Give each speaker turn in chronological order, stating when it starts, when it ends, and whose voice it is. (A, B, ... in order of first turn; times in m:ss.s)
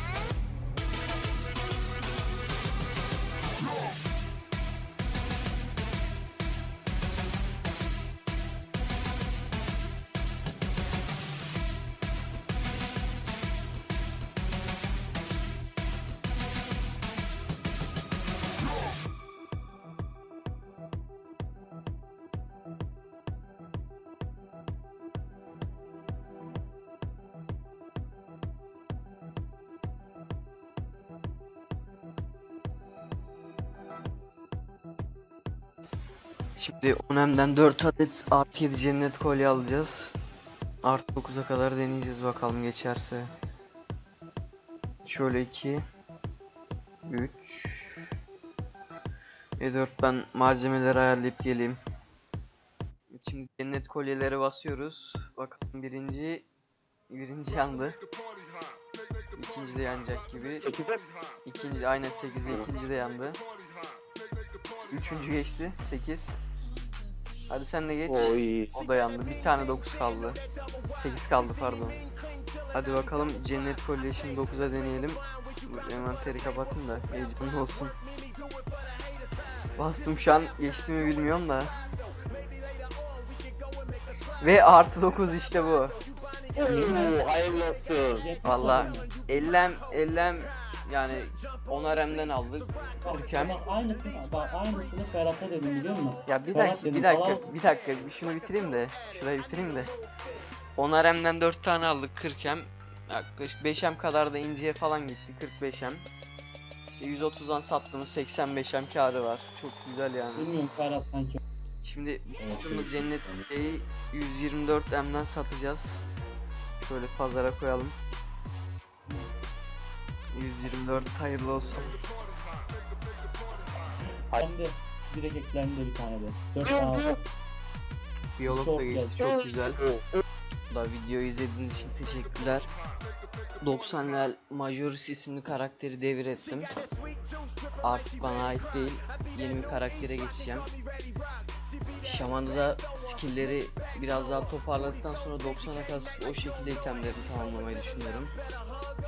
0:36.6-0:40.1 A
0:40.8-0:43.3 A
0:45.0-0:45.8 A
0:47.1-0:48.1 A
0:49.6-0:51.8 A
0:53.1-0:56.4 A
0:57.1-0:58.0 A
0:59.3-1:00.7 A
1:00.6-1:01.0 B
1:01.4-1:03.4 A
1:04.9-1:06.4 A
1:07.5-1:10.4 A
1:08.1-1:08.7 B
1:10.9-1:12.0 A
1:12.7-1:17.9 A
1:19.8-1:21.7 A
1:24.4-1:26.0 A
1:26.6-1:28.2 B
1:26.6-1:27.3 C
1:28.1-1:29.1 C
1:28.4-1:33.6 A
1:33.0-1:37.5 C
1:36.2-1:39.9 A
1:40.8-1:46.1 A
1:46.9-1:50.5 A
1:50.4-1:51.4 C
1:51.8-1:56.0 A
1:56.8-1:58.0 A
2:00.3-2:01.9 A
2:04.3-2:07.2 C
2:08.4-2:09.8 A
2:08.4-2:09.1 C
2:10.7-2:12.7 A
2:13.6-2:16.8 A
2:17.8-2:20.7 A
2:22.0-2:28.3 A